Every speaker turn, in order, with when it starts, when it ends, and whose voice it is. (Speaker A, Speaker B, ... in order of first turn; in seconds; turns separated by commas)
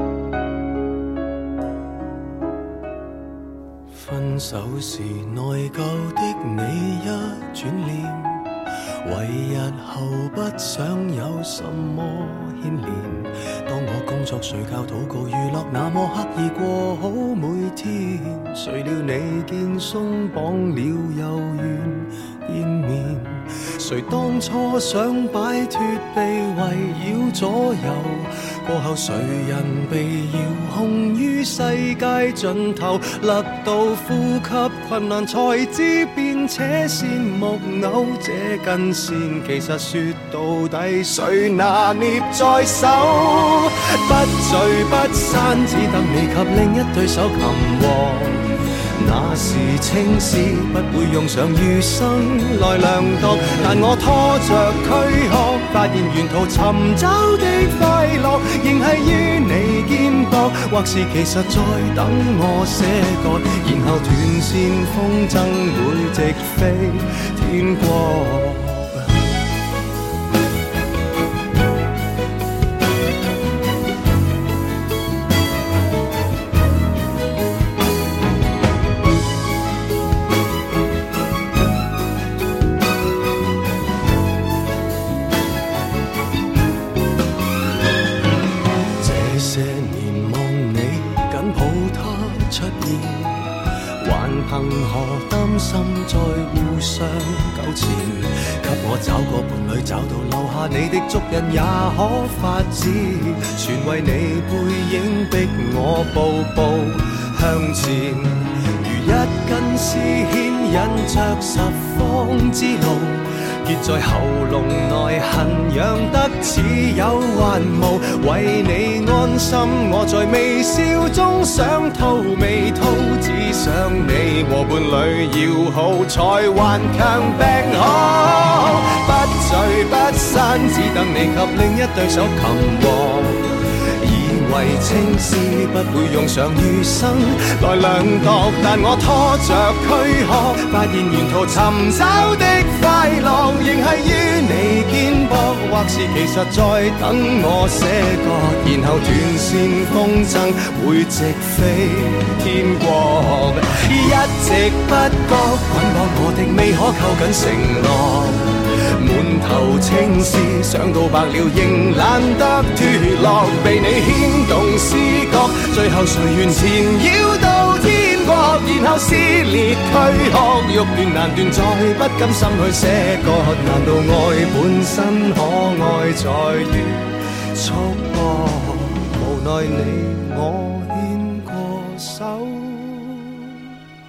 Speaker A: 3.9-8.5, Speaker A: 9.0-69.2, Speaker A: 89.0-183.7